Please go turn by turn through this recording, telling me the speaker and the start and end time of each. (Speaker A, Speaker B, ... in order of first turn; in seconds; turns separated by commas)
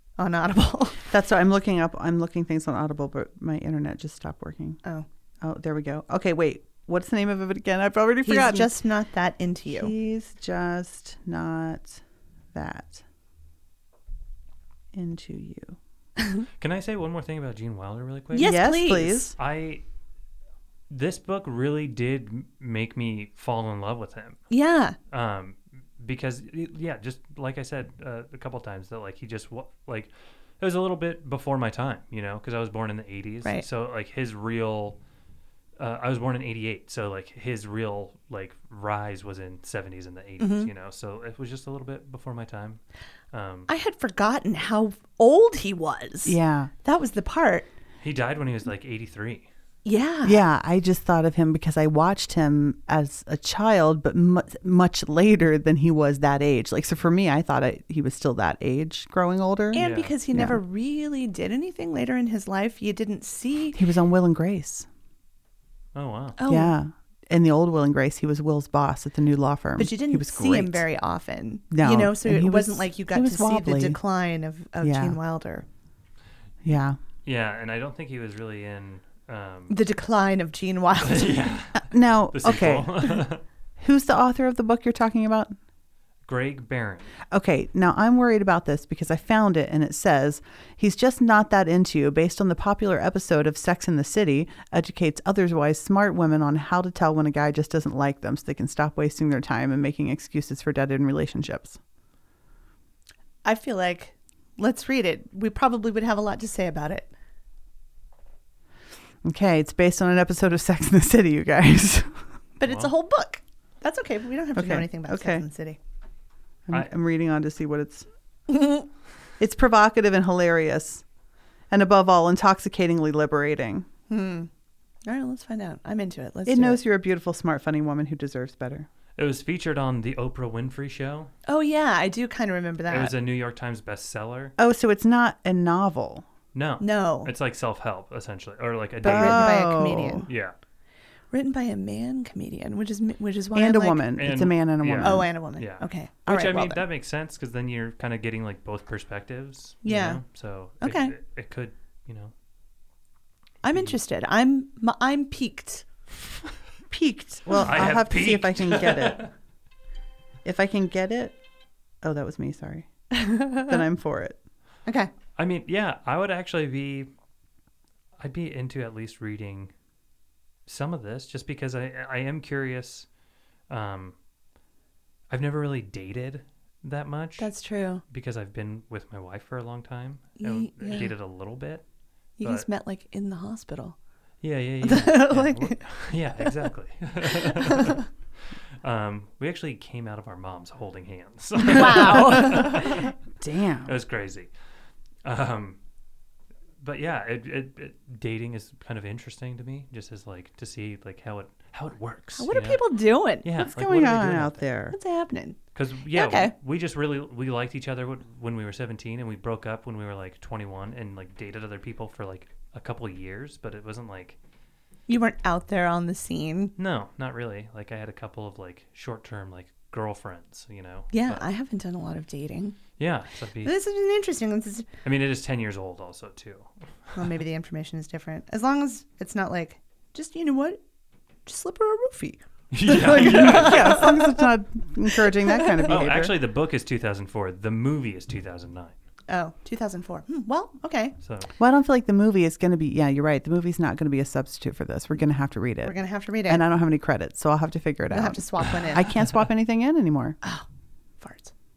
Speaker A: 0.2-1.0, Speaker B: 1.1-4.8, Speaker B: 5.4-8.7, Speaker A: 8.2-9.9, Speaker B: 9.7-12.0, Speaker B: 12.5-13.0, Speaker B: 14.9-15.8, Speaker C: 16.6-18.6, Speaker A: 18.3-19.3, Speaker B: 18.4-19.4, Speaker C: 19.4-19.8, Speaker C: 20.9-24.4, Speaker A: 24.5-25.0, Speaker C: 25.1-35.0, Speaker C: 35.8-43.7, Speaker A: 40.4-40.7, Speaker A: 43.7-47.7, Speaker B: 46.2-46.7, Speaker C: 48.0-49.5, Speaker A: 49.9-50.4, Speaker B: 50.2-60.6, Speaker A: 59.7-63.8, Speaker C: 59.8-60.1, Speaker B: 63.8-64.9, Speaker C: 66.0-66.4, Speaker A: 66.4-66.8, Speaker B: 66.5-70.8, Speaker A: 69.8-75.7, Speaker B: 71.7-74.0, Speaker B: 74.8-75.2, Speaker B: 76.6-77.0, Speaker C: 77.2-79.8, Speaker A: 79.7-81.4, Speaker C: 81.0-83.4, Speaker B: 81.9-83.1, Speaker B: 83.8-85.5, Speaker C: 86.3-87.2, Speaker B: 87.3-101.8, Speaker A: 103.4-107.1, Speaker B: 109.2-112.3, Speaker A: 112.6-115.8, Speaker C: 112.6-112.9, Speaker B: 114.6-115.4, Speaker B: 116.7-118.1, Speaker A: 118.5-118.9, Speaker B: 119.4-121.0, Speaker B: 121.7-123.9, Speaker A: 124.1-124.5, Speaker A: 125.1-126.8, Speaker B: 126.5-128.9, Speaker C: 129.2-131.3, Speaker A: 131.5-133.1, Speaker C: 132.9-134.5, Speaker B: 134.6-136.2, Speaker C: 136.5-140.6, Speaker A: 136.8-137.3, Speaker B: 139.0-140.3, Speaker A: 139.1-140.3, Speaker A: 141.3-144.1, Speaker B: 143.6-145.3, Speaker C: 144.1-152.3, Speaker A: 145.0-146.8, Speaker A: 149.8-150.2, Speaker A: 150.8-151.1, Speaker A: 153.6-155.9, Speaker B: 156.9-159.3, Speaker C: 157.5-159.3, Speaker B: 160.4-161.4, Speaker B: 162.0-162.9, Speaker A: 163.1-163.8, Speaker B: 163.7-164.4, Speaker A: 164.9-165.1, Speaker C: 165.4-167.1, Speaker C: 168.2-169.7, Speaker C: 170.7-173.1, Speaker C: 173.7-174.1, Speaker C: 175.3-177.5, Speaker A: 177.4-178.0, Speaker C: 178.1-181.8, Speaker A: 180.4-181.1, Speaker A: 182.4-184.0, Speaker C: 182.4-182.7, Speaker C: 184.4-188.0, Speaker A: 184.8-185.8, Speaker A: 187.6-188.0, Speaker C: 188.8-193.1, Speaker A: 191.7-193.0, Speaker B: 192.2-192.9, Speaker B: 193.4-194.0, Speaker C: 193.8-194.5, Speaker C: 195.2-195.8, Speaker C: 196.8-202.8, Speaker A: 202.4-203.5, Speaker C: 203.4-204.7, Speaker B: 203.6-205.0, Speaker A: 204.9-205.6, Speaker C: 205.8-214.4, Speaker A: 206.1-206.5, Speaker A: 215.1-216.7, Speaker C: 216.8-221.5, Speaker A: 221.1-222.8, Speaker C: 223.0-223.7, Speaker A: 223.6-224.9, Speaker C: 225.0-226.7, Speaker A: 227.1-230.8, Speaker A: 231.5-234.5, Speaker C: 232.7-234.1, Speaker B: 232.9-236.4, Speaker A: 235.2-235.8, Speaker C: 235.9-238.9, Speaker A: 239.3-241.2, Speaker C: 241.2-241.5, Speaker B: 241.6-250.4, Speaker A: 245.8-246.6, Speaker A: 248.1-249.1, Speaker A: 251.2-251.5